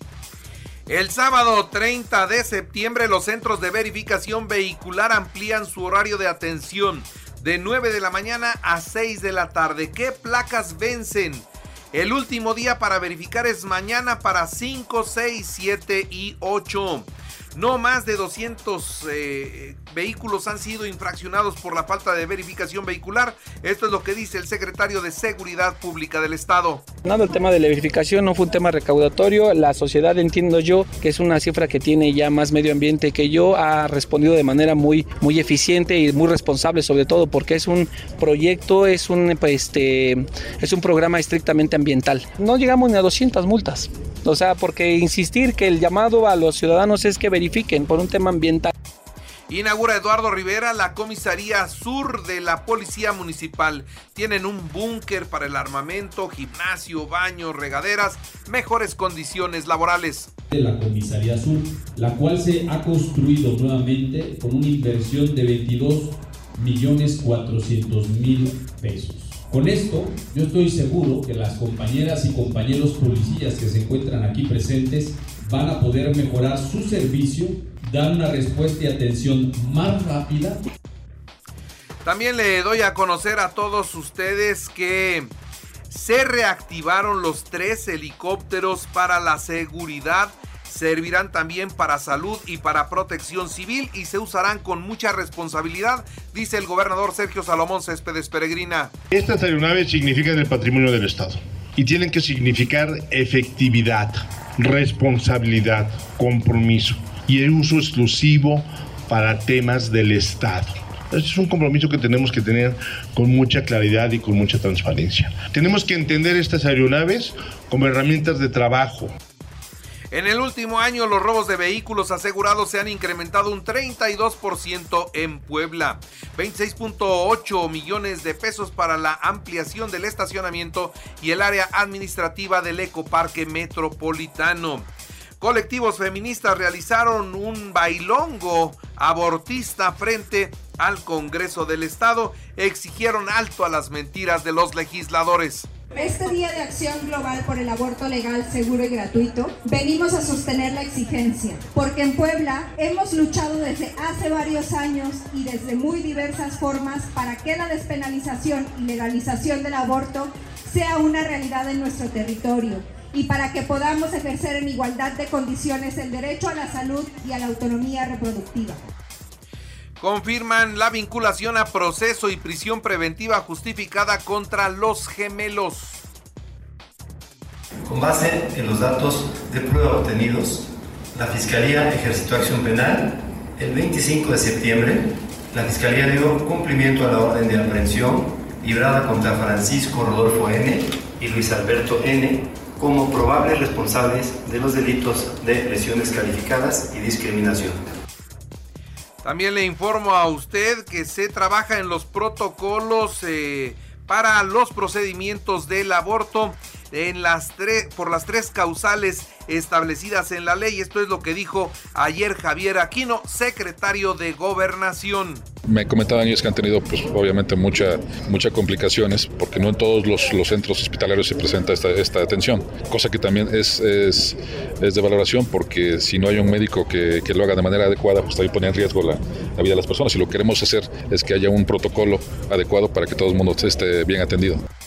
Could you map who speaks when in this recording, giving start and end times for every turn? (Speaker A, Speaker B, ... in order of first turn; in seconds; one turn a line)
Speaker A: 0.9-26.9
Speaker B: 27.1-48.7
Speaker A: 49.5-60.3
Speaker C: 60.5-80.6
Speaker A: 82.0-85.3
Speaker A: 85.9-99.0
Speaker D: 99.1-119.1
Speaker A: 120.1-145.7
Speaker E: 145.9-168.9
Speaker A: 170.0-176.0
Speaker F: 177.9-197.9
Speaker A: 199.2-215.5
Speaker G: 215.7-234.6